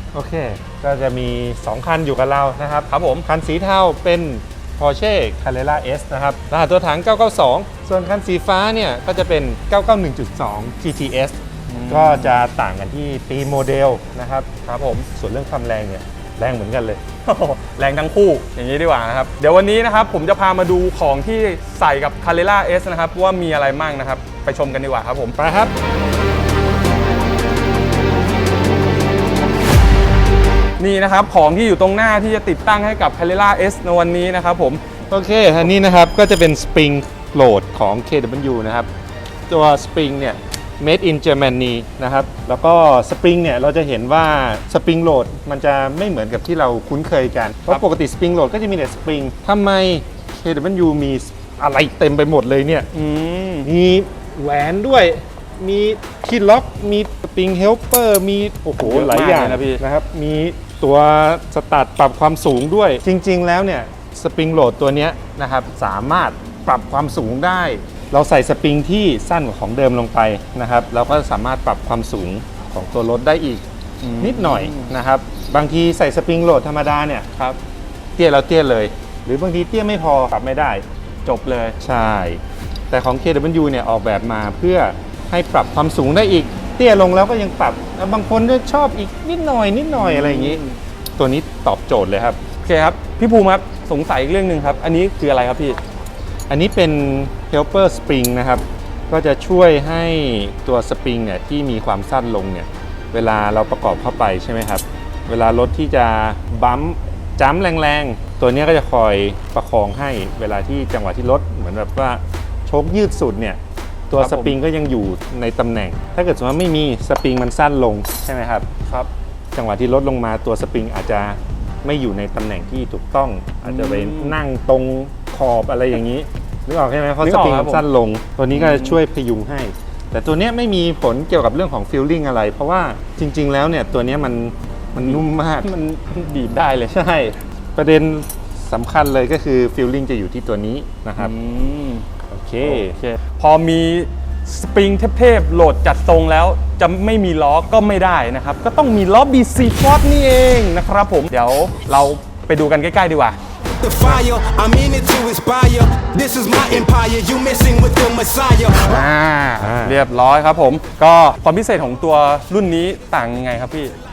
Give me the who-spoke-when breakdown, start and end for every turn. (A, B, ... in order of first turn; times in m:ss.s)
0:00.1-0:14.5 A
0:02.9-0:03.2 B
0:11.7-0:12.4 B
0:14.6-0:15.1 B
0:15.2-0:17.0 A
0:17.2-0:25.4 B
0:25.3-0:25.7 A
0:30.8-0:34.8 B
0:35.1-0:38.9 A
0:39.5-0:52.9 A
0:52.9-0:53.7 B
0:53.6-1:13.6 A
0:58.8-0:59.8 B
1:14.0-1:14.9 B
1:14.2-1:17.3 A
1:18.2-1:20.8 A
1:21.2-1:21.8 B
1:21.8-1:30.6 A
1:29.9-1:30.8 B
1:31.2-1:32.4 A
1:32.6-1:35.8 B
1:36.5-1:58.7 A
1:54.1-1:54.6 B
1:58.8-1:59.1 B
1:59.5-2:15.7 A
2:03.6-2:04.4 B
2:07.2-2:07.8 B
2:08.5-2:09.0 B
2:15.0-2:17.0 B
2:16.9-2:21.3 A
2:21.2-2:22.0 B
2:22.3-2:23.0 A
2:22.6-2:33.4 B
2:33.8-2:39.1 C
2:38.8-2:40.0 A
2:39.6-2:43.9 B